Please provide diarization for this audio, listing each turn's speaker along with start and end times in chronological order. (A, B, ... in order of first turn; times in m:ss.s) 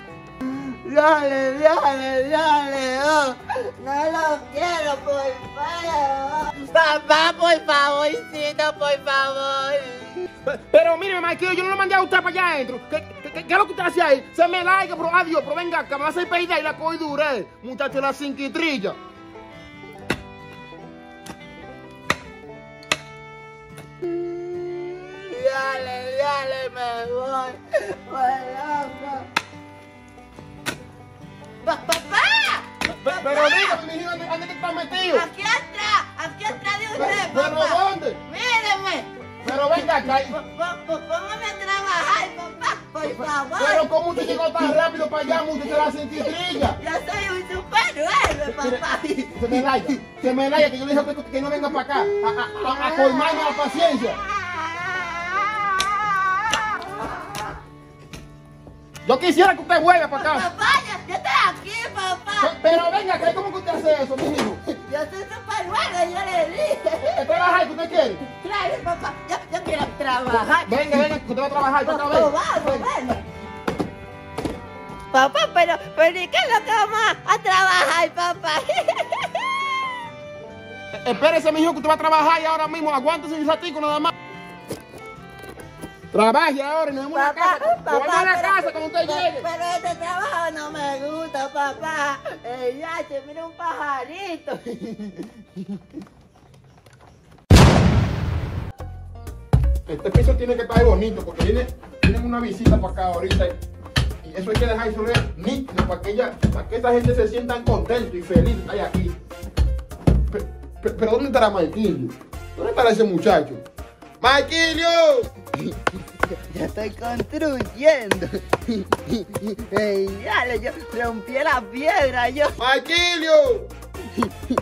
0:00.4-0:10.2 A
0:10.4-0:19.0 B
0:24.0-0:29.3 A
0:31.6-0:33.8 A
0:32.9-0:35.2 B
0:35.1-0:39.1 A
0:37.0-0:38.2 B
0:39.4-0:40.4 B
0:39.7-0:44.7 A
0:43.6-0:46.8 B
0:45.6-0:50.1 A
0:48.5-0:48.8 B
0:49.3-0:54.2 B
0:51.7-0:57.6 A
0:59.0-1:00.5 B
1:00.1-1:02.9 A
1:02.4-1:04.6 B
1:04.6-1:11.1 A
1:07.0-1:08.2 B
1:10.6-1:12.8 B
1:11.8-1:13.2 A
1:15.1-1:19.7 A
1:20.9-1:24.1 B
1:26.1-1:29.5 B
1:27.1-1:35.4 A
1:39.9-1:43.6 B
1:44.2-1:49.2 B
1:50.3-1:53.6 B
1:54.2-1:55.3 B
1:56.3-2:02.5 A
2:02.6-2:03.7 B